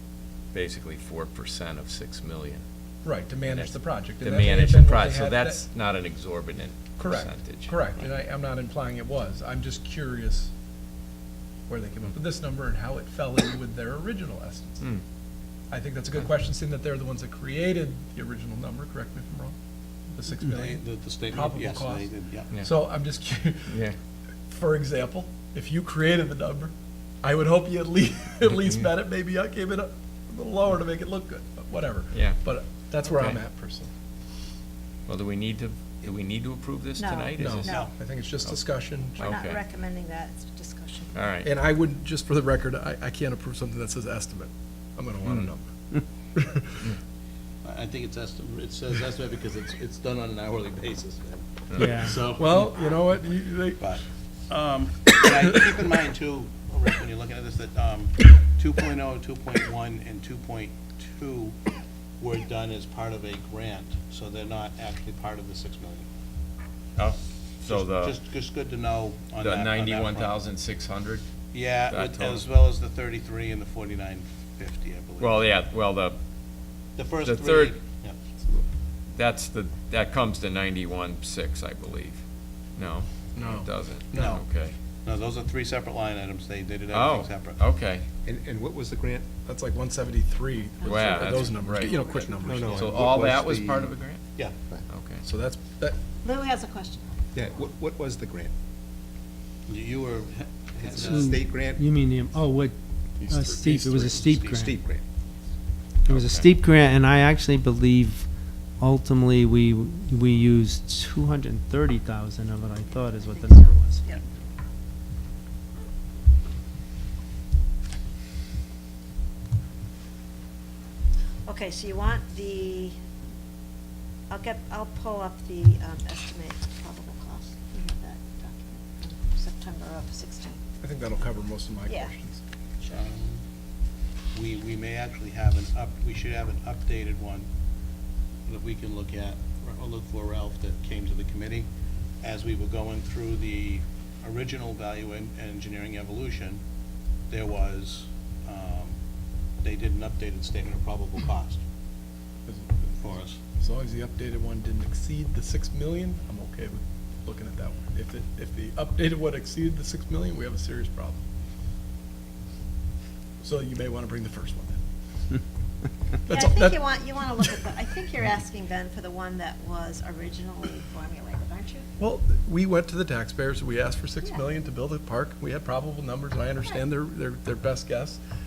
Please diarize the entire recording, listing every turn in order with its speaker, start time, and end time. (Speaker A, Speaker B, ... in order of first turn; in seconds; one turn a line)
Speaker A: 0.5-2.6
Speaker B: 3.0-5.6
Speaker A: 3.5-7.7
Speaker B: 7.0-10.5
Speaker B: 11.7-14.8
Speaker B: 15.7-19.6
Speaker B: 20.1-22.1
Speaker C: 20.5-22.5
Speaker B: 22.6-23.8
Speaker A: 23.7-23.9
Speaker B: 24.5-33.9
Speaker A: 32.1-32.4
Speaker A: 33.0-33.4
Speaker A: 35.1-37.8
Speaker D: 37.0-37.9
Speaker B: 37.4-39.4
Speaker A: 39.1-39.6
Speaker D: 39.2-41.1
Speaker A: 41.1-41.5
Speaker B: 41.4-45.6
Speaker A: 45.2-45.5
Speaker B: 46.3-46.9
Speaker C: 47.6-52.6
Speaker A: 51.7-52.0
Speaker E: 51.8-52.2
Speaker B: 52.2-53.9
Speaker C: 53.8-61.5
Speaker C: 62.2-66.0
Speaker A: 67.0-68.2
Speaker C: 67.7-70.4
Speaker A: 69.4-71.2
Speaker C: 71.5-75.4
Speaker A: 71.9-72.4
Speaker A: 75.2-76.2
Speaker C: 77.0-78.2
Speaker A: 77.2-77.8
Speaker A: 79.1-82.2
Speaker A: 82.8-84.8
Speaker B: 83.3-84.4
Speaker C: 84.1-84.4
Speaker C: 85.0-87.6
Speaker A: 86.9-88.0
Speaker F: 88.2-89.3
Speaker B: 89.5-92.9
Speaker D: 90.8-92.1
Speaker A: 90.8-92.0
Speaker F: 92.4-93.9
Speaker C: 92.5-92.9
Speaker A: 92.7-94.2
Speaker A: 94.9-95.2
Speaker B: 95.2-96.0
Speaker D: 96.2-97.1
Speaker F: 97.3-98.5
Speaker C: 99.7-101.4
Speaker F: 100.8-101.9
Speaker E: 101.0-104.8
Speaker C: 103.5-104.7
Speaker F: 104.5-105.0
Speaker E: 106.0-114.2
Speaker A: 106.1-106.5
Speaker D: 112.9-114.2
Speaker D: 121.5-123.0
Speaker D: 124.3-130.6
Speaker B: 130.8-132.4
Speaker C: 132.8-133.4
Speaker C: 134.3-137.5
Speaker C: 138.5-141.7
Speaker C: 142.2-146.6
Speaker C: 147.3-148.9
Speaker C: 149.6-151.6
Speaker B: 152.5-161.2
Speaker C: 153.0-153.4
Speaker B: 163.4-164.8
Speaker B: 166.3-167.6
Speaker D: 166.3-171.9
Speaker B: 172.0-178.2